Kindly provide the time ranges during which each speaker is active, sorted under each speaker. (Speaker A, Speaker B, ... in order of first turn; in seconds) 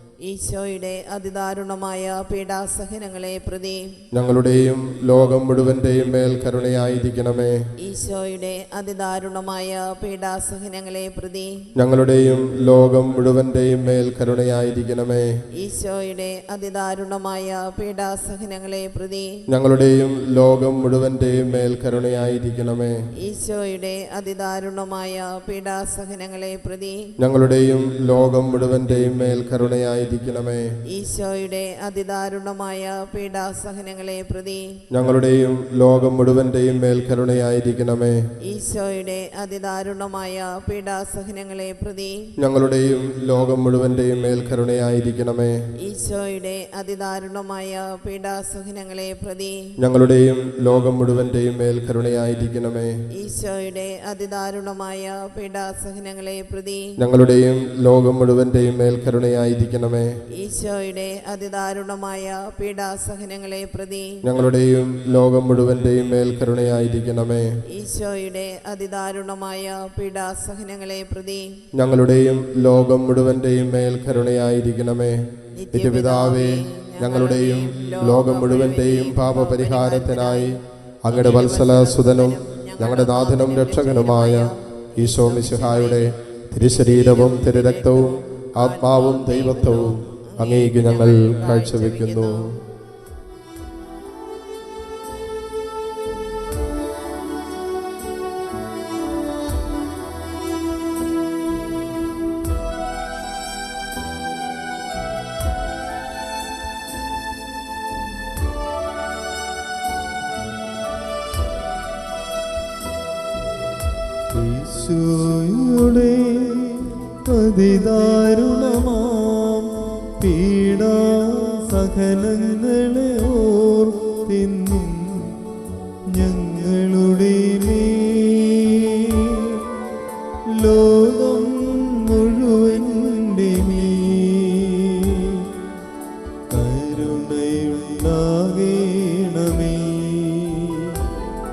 Speaker A: 0.2-4.1, 7.8-11.7, 15.6-19.4, 23.2-27.1, 30.9-34.8, 38.4-42.3, 45.8-49.7, 53.1-57.0, 60.3-64.2, 67.7-71.6, 75.5-92.5
Speaker B: 4.1-7.6, 11.8-15.3, 19.5-22.9, 27.2-30.7, 34.9-38.2, 42.4-45.6, 49.8-53.0, 57.0-60.2, 64.2-67.6, 71.7-92.6
Speaker C: 114.3-125.4, 126.1-129.8, 130.4-135.6, 136.5-141.1